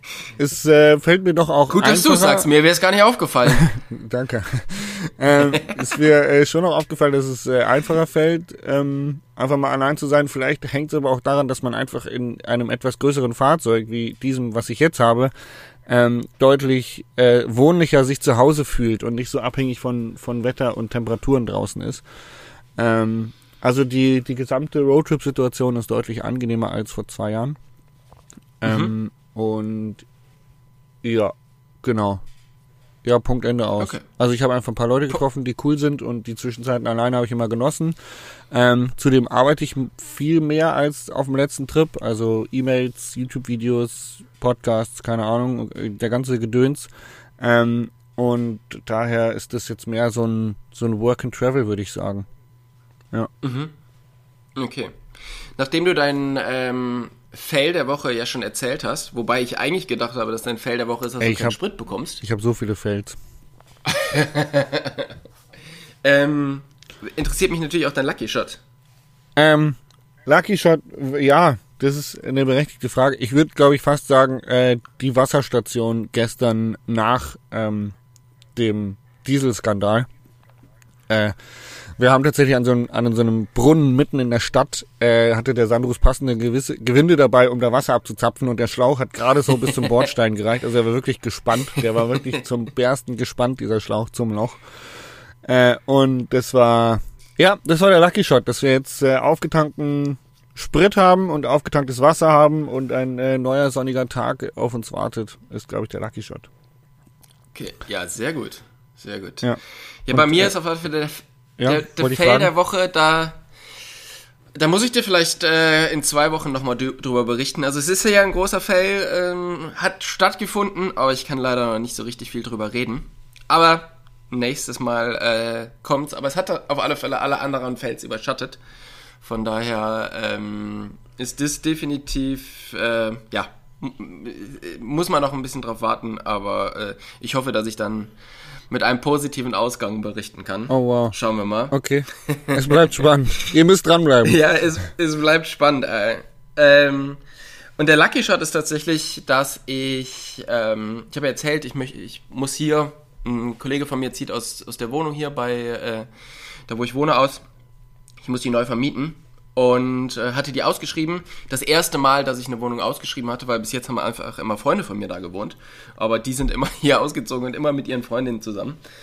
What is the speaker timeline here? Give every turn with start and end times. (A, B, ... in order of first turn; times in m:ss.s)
0:00.4-0:02.5 A
0:01.7-0:03.7 B
0:03.6-0:15.3 A
0:05.4-0:05.8 B
0:15.9-0:22.0 A
0:22.8-0:27.6 A
0:28.6-0:30.0 A
0:28.6-0:28.9 B
0:31.0-0:32.2 A
0:33.0-0:38.0 A
0:33.8-0:34.0 B
0:38.5-0:52.3 A
0:53.4-0:53.7 B
0:54.6-0:55.0 B
0:55.6-1:02.2 B
1:01.2-1:01.6 A
1:02.2-1:03.2 A
1:03.9-1:05.1 B
1:06.0-1:08.6 B
1:09.4-1:18.0 A
1:18.6-1:20.1 A
1:21.1-1:21.4 A
1:22.0-1:34.6 A
1:35.4-1:46.5 A
1:47.5-1:49.5 B
1:50.0-1:53.4 B
1:50.1-1:50.5 A
1:51.6-1:52.5 A
1:54.6-2:08.6 B
2:09.2-2:18.1 B
2:18.7-2:23.5 B
2:20.7-2:21.2 A
2:21.7-2:24.4 A
2:24.2-2:27.2 B
2:27.8-2:36.1 B
2:36.7-2:37.4 B
2:38.2-2:48.8 B